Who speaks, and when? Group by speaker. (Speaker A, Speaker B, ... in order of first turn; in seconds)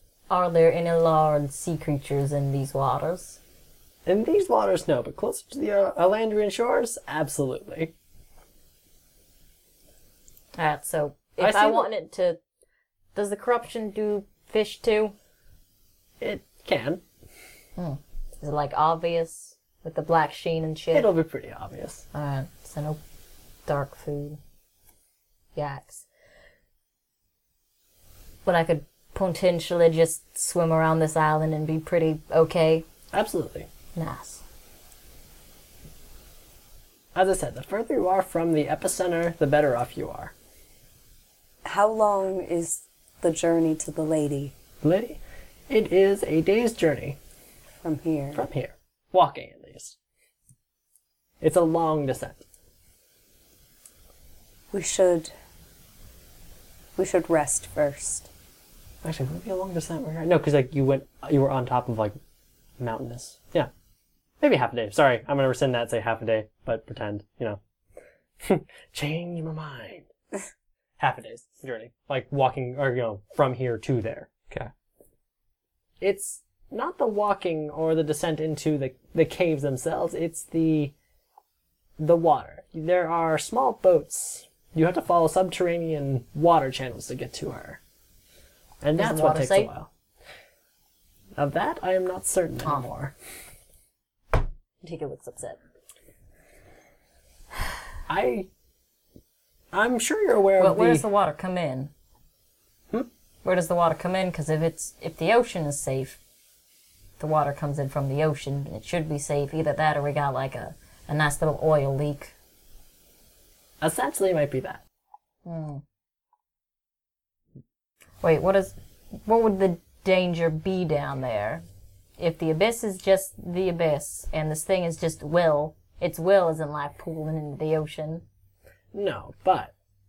Speaker A: 0.3-3.4, 10.6-12.4, 13.1-15.1, 17.8-21.1, 22.1-23.0, 23.6-24.4, 25.5-26.0, 28.4-32.9, 34.0-34.4, 89.0-89.7, 94.8-95.6, 100.6-101.9, 103.4-106.2, 107.2-112.3, 115.4-115.8, 118.2-121.6, 122.2-128.2
Speaker B: 4.0-7.9, 11.4-11.9, 16.2-17.0, 20.9-22.0, 33.1-33.7, 37.1-40.3, 44.8-45.2, 45.7-47.2, 48.3-50.0, 51.4-52.4, 59.0-62.2, 62.8-63.7, 64.4-67.6, 68.4-70.1, 71.0-74.3, 76.0-80.9, 82.0-87.8, 88.8-89.9, 91.3-93.1, 98.1-98.5, 99.7-101.0, 113.8-114.8, 128.9-129.7
Speaker C: 41.6-44.5, 47.8-48.4, 54.7-55.3, 57.0-58.3